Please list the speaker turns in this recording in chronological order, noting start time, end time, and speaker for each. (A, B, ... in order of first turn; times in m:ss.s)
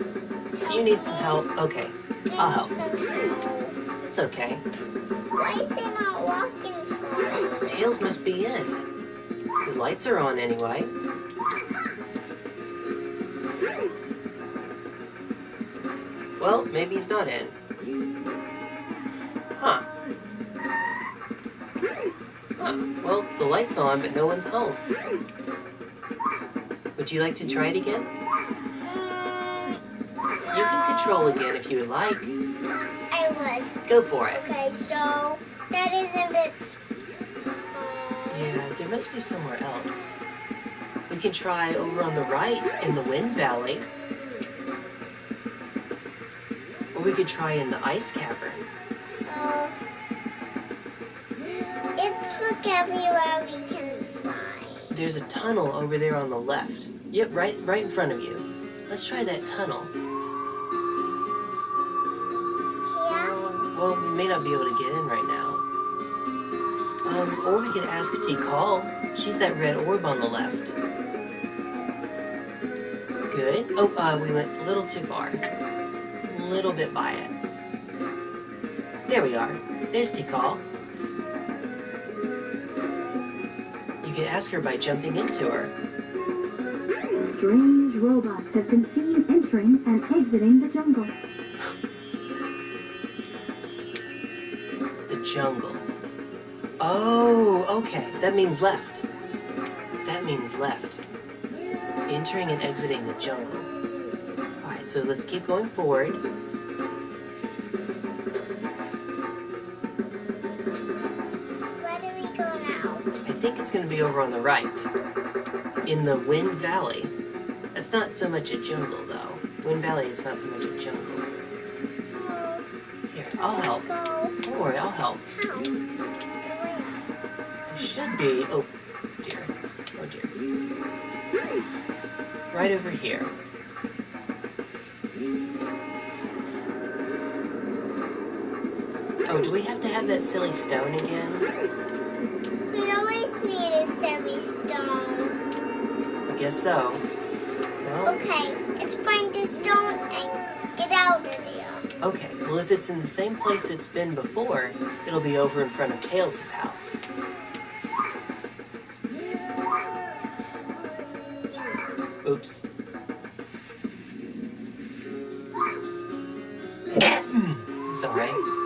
0:00.5-0:01.5 A
0:00.7-0:02.7 B
0:02.3-0:03.8 A
0:04.0-0:04.6 B
0:05.3-0:07.9 A
0:07.3-0:08.8 B
0:09.6-0:10.9 B
0:16.4-0:17.6 B
0:19.6-0:19.9 B
0:22.6-0:24.8 B
0:27.0-0:28.1 B
0:28.8-0:29.8 A
0:30.4-0:31.3 A
0:30.5-0:32.3 B
0:33.1-0:36.8 A
0:33.8-0:34.4 B
0:37.7-0:38.6 A
0:38.3-0:40.2 B
0:41.1-0:43.9 B
0:46.9-0:48.7 B
0:49.2-0:49.8 A
0:52.0-0:55.0 A
0:54.9-0:59.9 B
1:02.9-1:03.6 A
1:03.3-1:05.6 B
1:07.0-1:10.8 B
1:13.3-1:15.4 B
1:16.2-1:17.4 B
1:19.1-1:20.6 B
1:24.0-1:25.7 B
1:27.2-1:31.2 C
1:35.1-1:35.9 B
1:36.8-1:39.0 B
1:40.0-1:41.0 B
1:42.1-1:43.7 B
1:44.6-1:46.2 B
1:51.8-1:53.0 A
1:53.2-1:54.9 B
1:55.8-1:57.1 B
1:57.7-2:01.3 B
2:02.1-2:02.7 A
2:03.1-2:03.9 B
2:03.4-2:04.4 A
2:04.4-2:05.2 B
2:05.3-2:05.8 A
2:06.4-2:07.1 A
2:07.7-2:08.7 B
2:09.2-2:10.3 B
2:12.5-2:13.3 B
2:19.3-2:21.5 B
2:22.7-2:25.4 A
2:26.3-2:27.1 B
2:27.8-2:28.2 B
2:28.0-2:31.9 A
2:32.0-2:37.0 B
2:42.2-2:42.6 B
2:46.9-2:48.4 B